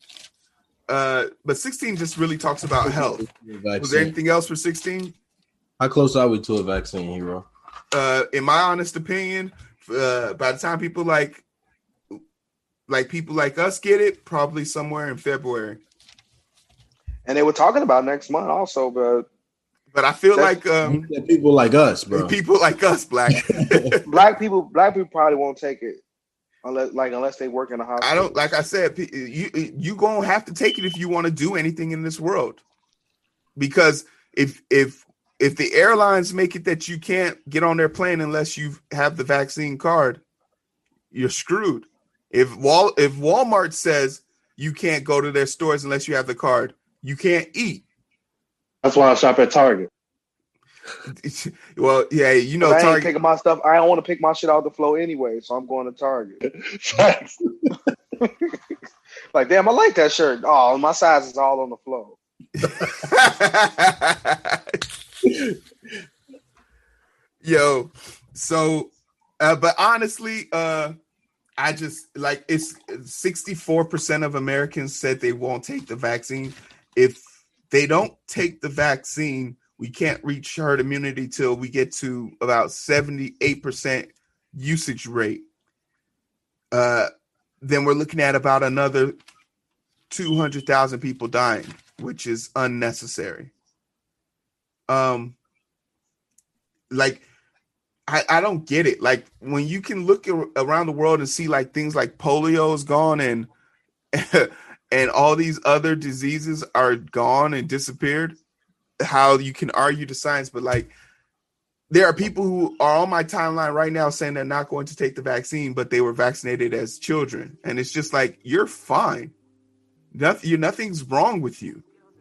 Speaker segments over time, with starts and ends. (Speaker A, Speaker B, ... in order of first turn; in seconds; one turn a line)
Speaker A: 0.9-3.2
Speaker B: 2.8-4.1
Speaker A: 3.8-5.1
Speaker B: 5.8-7.5
Speaker A: 7.9-11.4
Speaker A: 12.9-15.8
Speaker C: 17.2-19.3
Speaker A: 19.9-21.0
Speaker B: 20.8-22.3
Speaker A: 22.1-24.1
Speaker B: 23.5-23.9
Speaker C: 24.1-26.0
Speaker C: 26.6-28.4
Speaker A: 28.0-32.6
Speaker A: 33.5-40.2
Speaker A: 41.1-47.8
Speaker D: 48.8-49.9
Speaker A: 51.2-53.1
Speaker C: 52.6-56.4
Speaker D: 56.4-57.7
Speaker C: 58.2-58.5
Speaker C: 59.3-62.2
Speaker A: 62.6-64.8
Speaker B: 65.2-65.6
Speaker A: 67.4-70.9
Speaker A: 71.6-85.4
Speaker A: 86.7-87.1
Speaker A: 87.6-89.2
Speaker A: 90.1-93.5
Speaker A: 94.9-95.3
Speaker A: 96.9-97.2
Speaker A: 98.1-103.5
Speaker A: 104.1-108.4
Speaker A: 109.0-110.9
Speaker A: 111.9-119.3
Speaker A: 120.1-121.8